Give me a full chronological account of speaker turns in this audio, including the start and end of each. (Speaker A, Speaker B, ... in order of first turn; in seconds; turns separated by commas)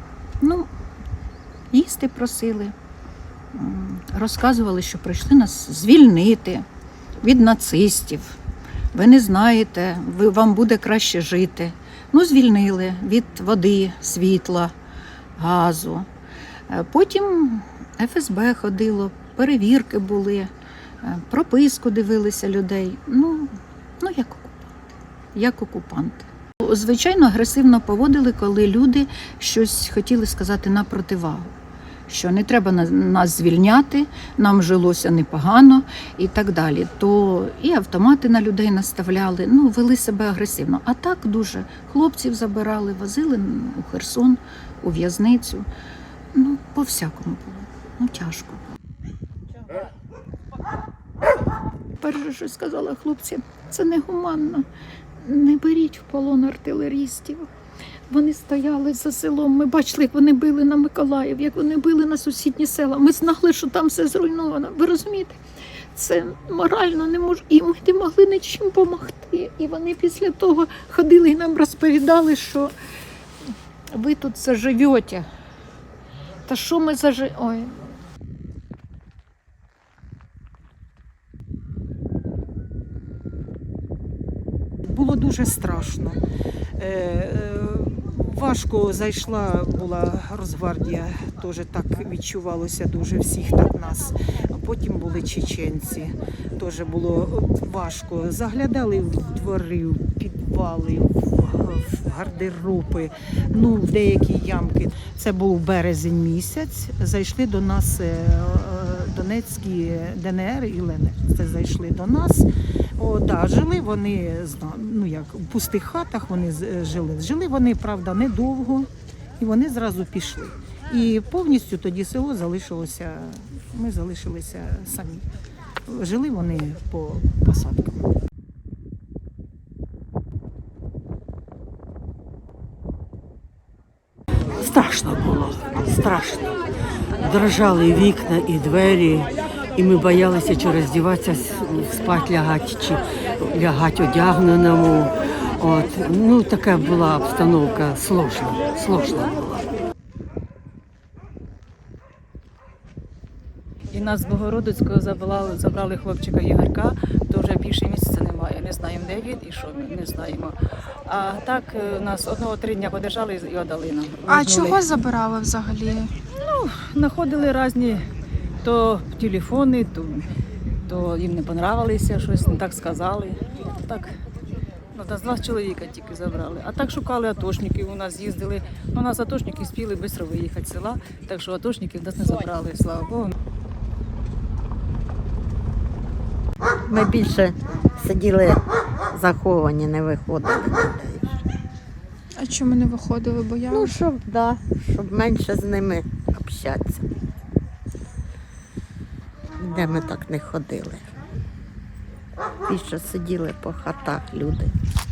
Speaker A: 0.4-0.7, Speaker A: 1.7-2.7, Speaker A: 3.5-6.6, Speaker A: 7.2-8.4, Speaker A: 8.9-14.7, Speaker A: 15.4-16.1, Speaker A: 16.7-20.5, Speaker A: 21.0-24.7, Speaker A: 25.3-31.5, Speaker A: 32.1-45.7, Speaker A: 46.3-48.6, Speaker A: 52.0-54.6, Speaker A: 55.2-57.5, Speaker A: 58.1-65.4, Speaker A: 65.9-72.7, Speaker A: 73.9-75.3, Speaker A: 76.5-77.8, Speaker B: 84.9-86.2, Speaker B: 86.8-125.2, Speaker B: 125.9-128.0, Speaker C: 134.6-136.5, Speaker C: 137.2-149.6, Speaker D: 153.9-160.6, Speaker D: 161.1-164.8, Speaker E: 164.2-166.1, Speaker D: 166.3-168.1, Speaker D: 168.6-170.3, Speaker D: 170.8-174.1, Speaker D: 174.9-183.3, Speaker F: 186.8-188.6, Speaker F: 189.1-191.4, Speaker E: 192.4-193.9, Speaker F: 193.7-197.1, Speaker F: 199.6-201.1, Speaker F: 202.7-204.7